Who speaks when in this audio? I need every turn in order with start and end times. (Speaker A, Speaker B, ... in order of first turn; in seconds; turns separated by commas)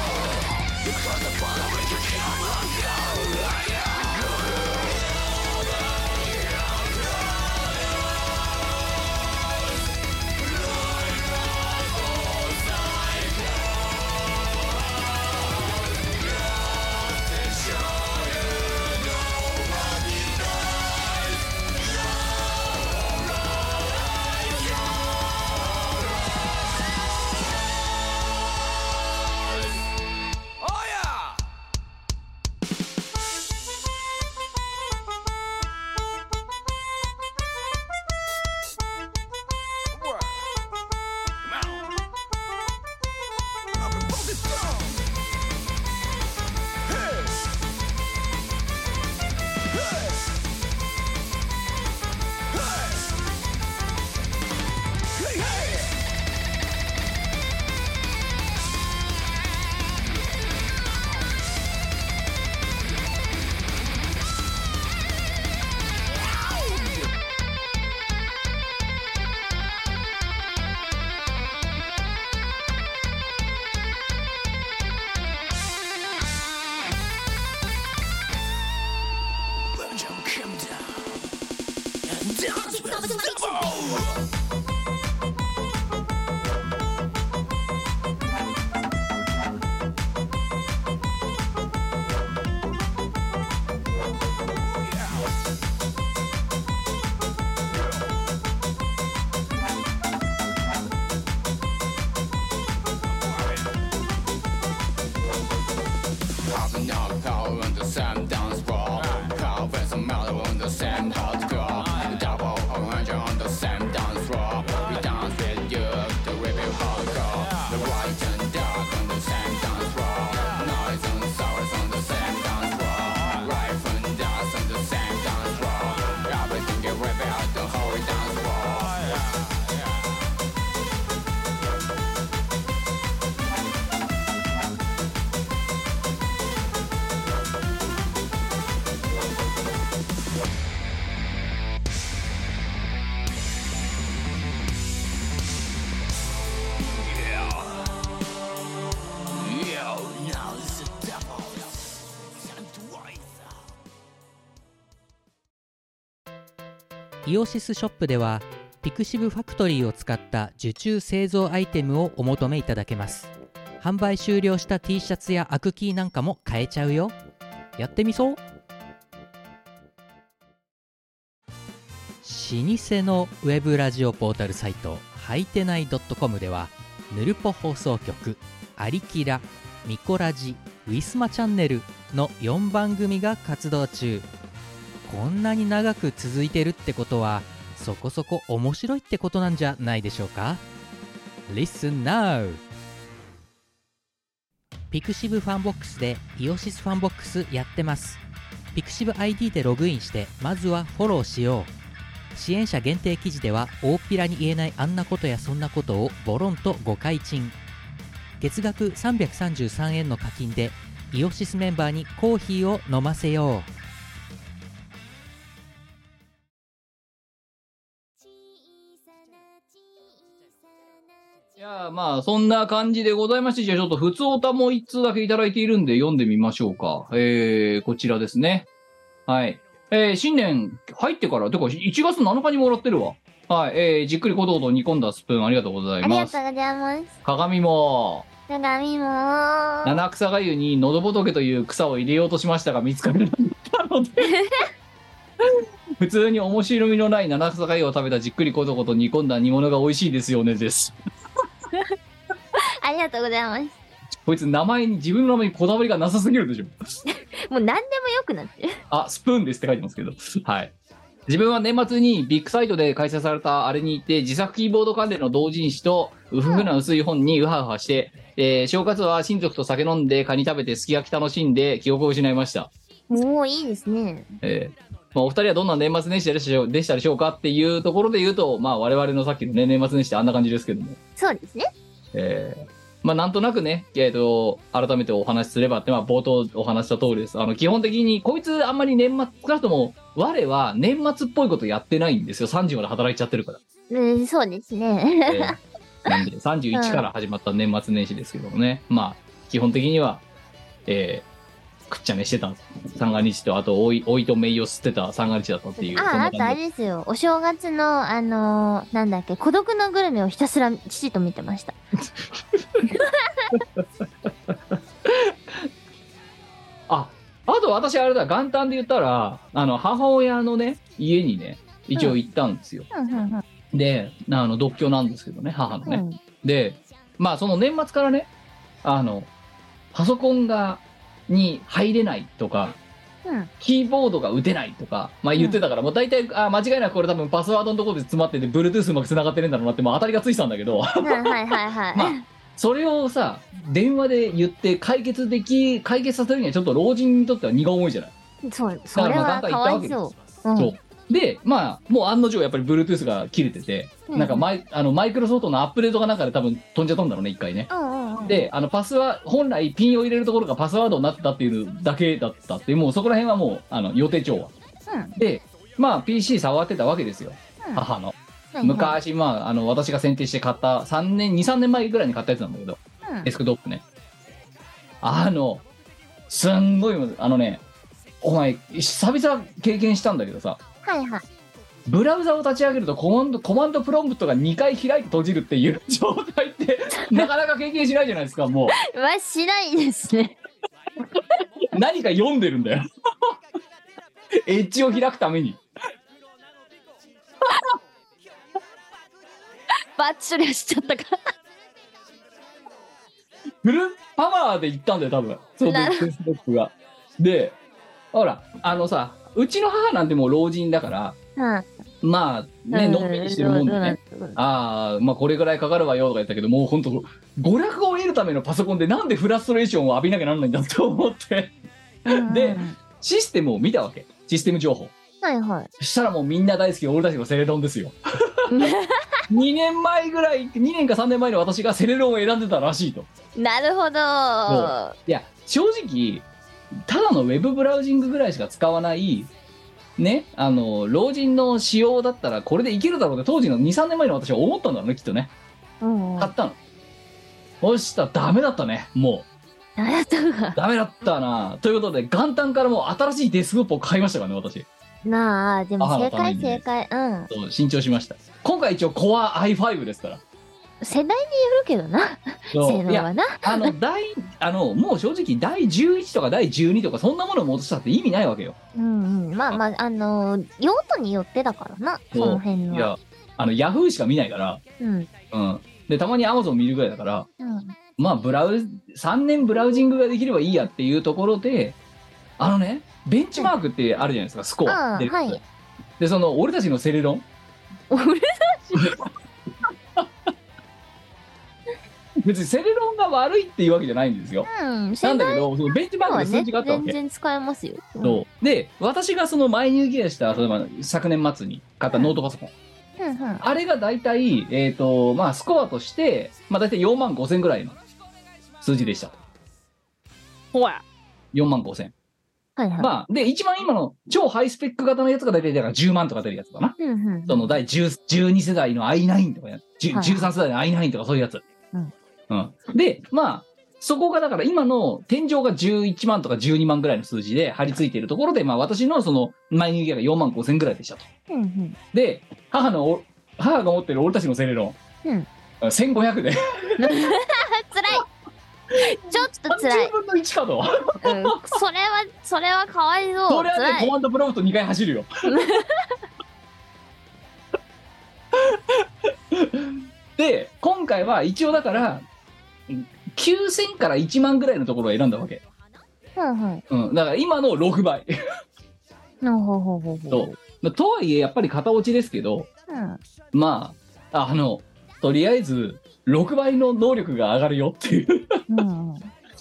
Speaker A: 1.0-3.3, Speaker A: 79.9-80.9, Speaker A: 82.1-84.1, Speaker A: 106.5-129.2, Speaker A: 149.5-151.3, Speaker B: 157.2-167.1, Speaker B: 167.8-168.4, Speaker B: 172.2-184.3, Speaker B: 185.1-190.6, Speaker B: 191.5-192.6, Speaker B: 194.9-198.2, Speaker B: 198.7-201.7, Speaker B: 202.3-207.6, Speaker B: 208.4-213.7, Speaker C: 221.6-228.7, Speaker C: 229.3-236.3, Speaker D: 236.0-237.1, Speaker C: 237.2-238.3, Speaker D: 238.5-240.0, Speaker C: 239.8-244.3, Speaker D: 244.2-244.6, Speaker C: 245.4-250.9, Speaker D: 252.8-253.8, Speaker C: 254.2-256.7, Speaker D: 257.1-258.8, Speaker C: 258.9-260.7, Speaker C: 261.3-272.7, Speaker D: 266.4-266.7, Speaker D: 273.1-274.3, Speaker C: 274.4-281.0, Speaker D: 281.2-281.7, Speaker C: 282.1-293.6, Speaker D: 293.9-295.6, Speaker C: 295.2-300.2, Speaker D: 296.7-297.0, Speaker C: 300.9-301.3, Speaker C: 301.9-306.6, Speaker D: 305.8-311.8, Speaker C: 312.4-312.9, Speaker D: 312.9-313.5, Speaker C: 313.5-313.8, Speaker C: 314.5-315.7, Speaker C: 316.9-322.9, Speaker D: 322.9-323.4, Speaker C: 323.7-328.3, Speaker D: 325.8-326.2, Speaker C: 328.8-329.3, Speaker C: 329.9-332.8, Speaker D: 333.2-333.5, Speaker C: 333.6-341.4, Speaker D: 341.0-342.2, Speaker C: 341.9-348.1, Speaker D: 348.4-350.7, Speaker C: 348.9-350.0, Speaker C: 350.6-357.7, Speaker D: 354.1-354.4, Speaker D: 357.7-358.5, Speaker C: 358.2-364.5, Speaker D: 364.9-365.1, Speaker C: 365.2-373.8, Speaker D: 368.5-369.0, Speaker D: 373.0-373.3, Speaker C: 375.0-375.6, Speaker C: 376.3-377.6, Speaker C: 378.2-380.6, Speaker D: 380.8-381.2, Speaker C: 381.9-388.8, Speaker D: 388.8-390.4, Speaker C: 391.7-393.3, Speaker C: 394.4-395.6, Speaker D: 399.9-401.2, Speaker C: 403.6-407.6, Speaker D: 405.6-406.1, Speaker C: 408.1-411.1, Speaker D: 411.4-411.7, Speaker C: 412.0-421.5, Speaker D: 412.7-414.4, Speaker D: 422.1-422.8, Speaker C: 422.1-424.9, Speaker D: 425.2-425.7, Speaker C: 425.8-428.6, Speaker D: 428.5-429.2, Speaker C: 429.3-433.1, Speaker D: 433.4-434.9, Speaker C: 434.5-436.3, Speaker C: 436.9-439.3, Speaker C: 440.0-445.3, Speaker D: 445.8-446.3, Speaker C: 446.2-446.6, Speaker C: 447.6-449.3, Speaker D: 449.8-450.6, Speaker C: 450.6-454.6, Speaker D: 455.0-457.3, Speaker C: 455.8-456.6, Speaker C: 457.3-460.2, Speaker D: 460.8-463.7, Speaker C: 462.5-468.6, Speaker D: 468.7-472.9, Speaker C: 472.1-474.6, Speaker D: 474.8-475.1, Speaker C: 475.3-477.3, Speaker D: 477.4-477.7, Speaker C: 478.0-481.8, Speaker C: 482.4-485.4, Speaker D: 484.6-485.4, Speaker C: 486.0-487.2, Speaker D: 487.9-489.0, Speaker C: 492.2-494.5, Speaker D: 494.5-495.5, Speaker C: 495.0-496.9, Speaker D: 496.0-498.2, Speaker C: 498.0-502.5, Speaker D: 503.0-503.4, Speaker C: 503.4-507.8, Speaker C: 508.6-509.1, Speaker D: 510.5-510.8, Speaker C: 511.3-511.9, Speaker D: 512.6-512.9, Speaker C: 512.8-521.4, Speaker D: 516.8-517.5, Speaker D: 519.9-520.3, Speaker C: 522.3-531.0, Speaker D: 531.3-531.8, Speaker C: 531.9-534.8, Speaker C: 535.6-536.9, Speaker D: 536.8-538.0, Speaker C: 538.7-541.4, Speaker D: 538.8-539.9, Speaker D: 541.0-543.9, Speaker C: 543.3-545.1, Speaker D: 545.2-545.9, Speaker C: 548.3-552.0, Speaker C: 552.7-555.4, Speaker D: 556.1-556.6, Speaker C: 556.7-558.1, Speaker D: 559.2-560.3, Speaker C: 560.1-562.5, Speaker D: 562.7-563.0, Speaker C: 563.3-568.4, Speaker D: 568.5-569.1